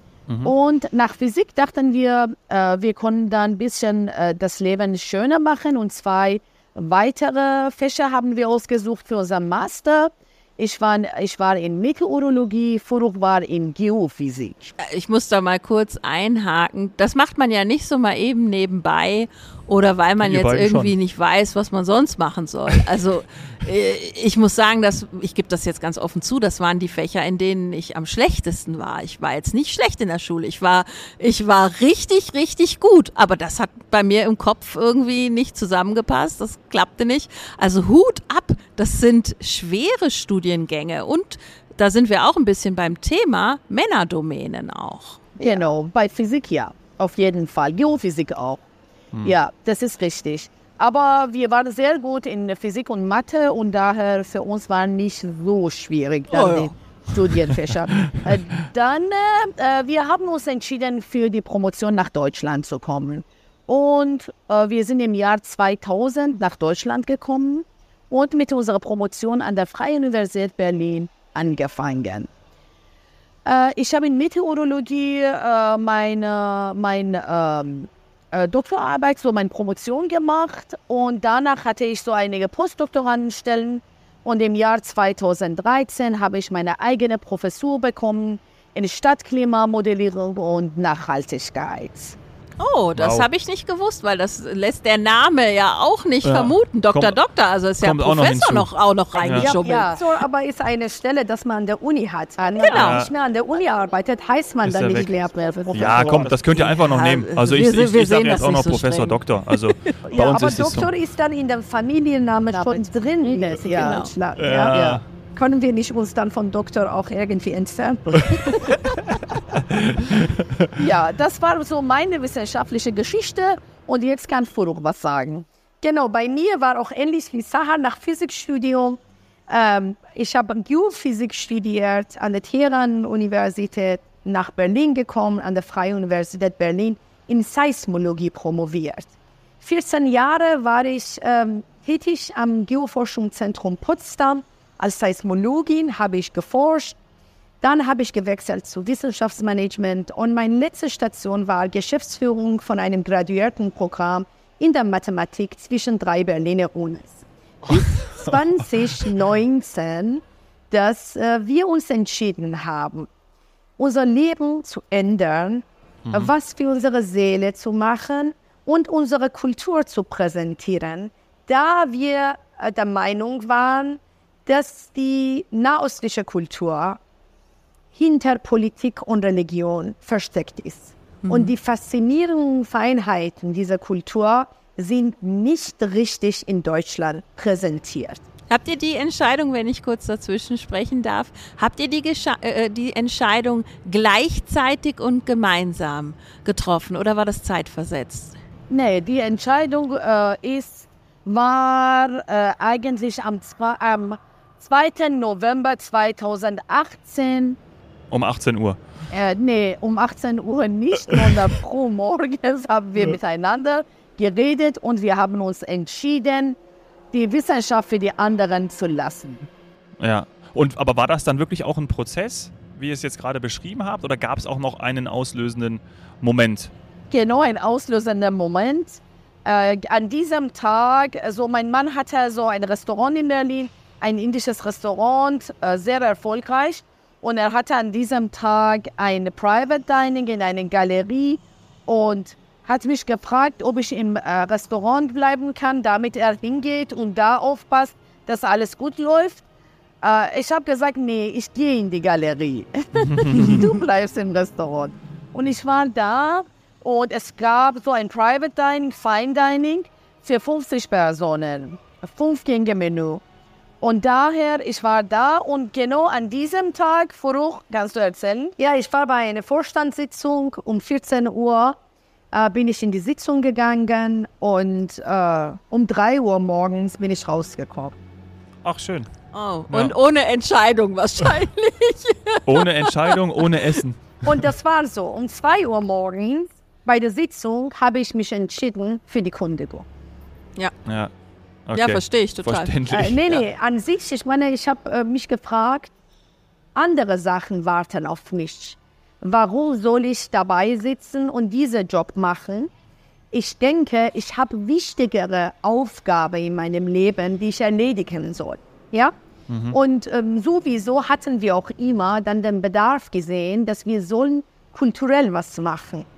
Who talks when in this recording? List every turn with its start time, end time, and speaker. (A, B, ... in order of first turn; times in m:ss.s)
0:00.3-0:00.5 A
0:00.4-0:14.7 B
0:14.8-0:45.3 C
0:20.2-0:20.9 A
0:45.4-0:48.6 B
0:49.2-1:12.3 B
0:56.3-0:56.7 C
1:13.4-1:32.2 B
1:32.6-1:40.0 C
1:33.0-1:33.2 A
1:36.2-1:37.2 A
1:37.8-1:39.5 A
1:39.3-1:46.4 B
1:42.6-1:43.0 C
1:42.7-1:43.1 A
1:44.6-1:45.1 A
1:45.7-1:50.9 A
1:45.8-1:49.9 C
1:50.1-1:58.8 B
1:52.5-1:54.1 C
1:54.4-1:55.0 A
1:59.7-2:00.7 A
2:00.8-2:27.0 B
2:27.6-2:43.1 B
2:43.8-2:57.0 B
2:46.1-2:46.3 A
2:57.9-3:08.2 B
3:01.2-3:01.5 C
3:08.5-3:18.4 C
3:18.7-3:27.6 B
3:28.1-3:28.8 A
3:29.1-3:36.6 B
3:31.1-3:31.3 A
3:37.1-3:39.5 B
3:40.0-3:46.7 A
3:47.1-4:09.4 B
4:10.0-4:23.2 B
4:13.0-4:13.6 A
4:23.8-4:31.8 B
4:32.3-4:38.0 B
4:38.6-4:39.1 A
4:39.3-4:43.8 C
4:39.7-4:39.9 A
4:42.5-4:44.1 A
4:44.2-4:49.9 B
4:50.8-4:51.1 A
4:51.7-4:53.4 A
4:51.8-4:52.8 C
4:52.9-4:55.9 B
4:56.7-5:02.7 B
5:03.3-5:09.1 B
5:09.5-5:09.8 A
5:09.7-5:16.1 B